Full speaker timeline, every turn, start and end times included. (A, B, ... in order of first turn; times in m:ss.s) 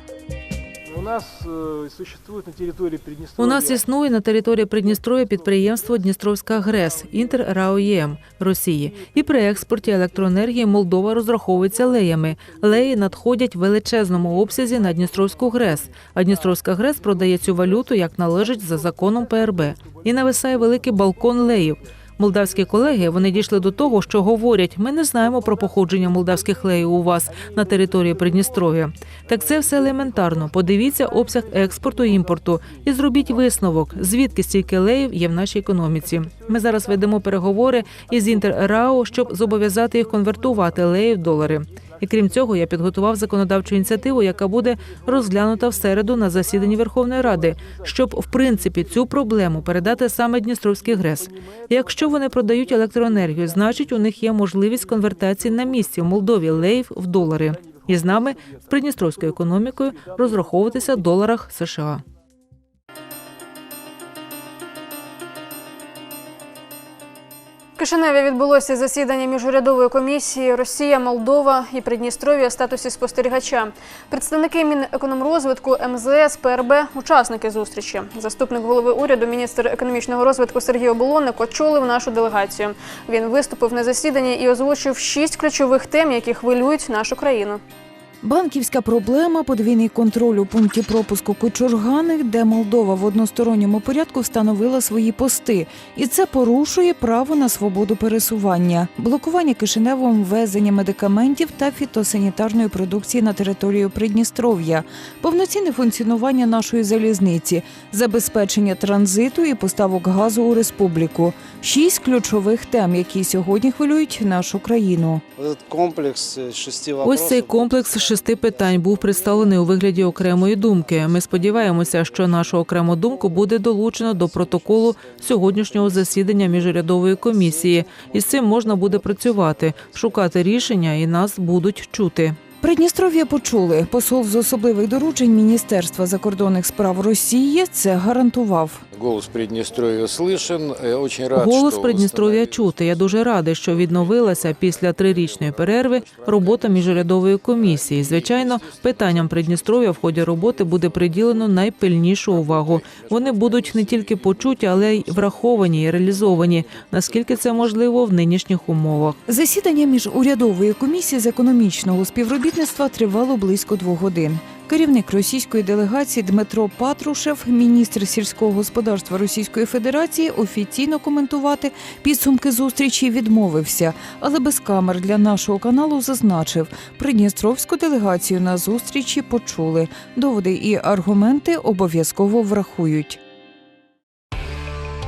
0:00.9-0:03.6 A
0:03.4-1:02.0 B
1:07.8-1:27.6 C
1:28.2-1:55.2 D
1:55.4-1:58.2 E
1:57.0-2:12.4 B
2:05.6-2:06.2 E
2:12.6-2:18.8 D
2:18.9-2:37.8 E
2:21.3-2:39.2 B
2:39.3-3:03.2 D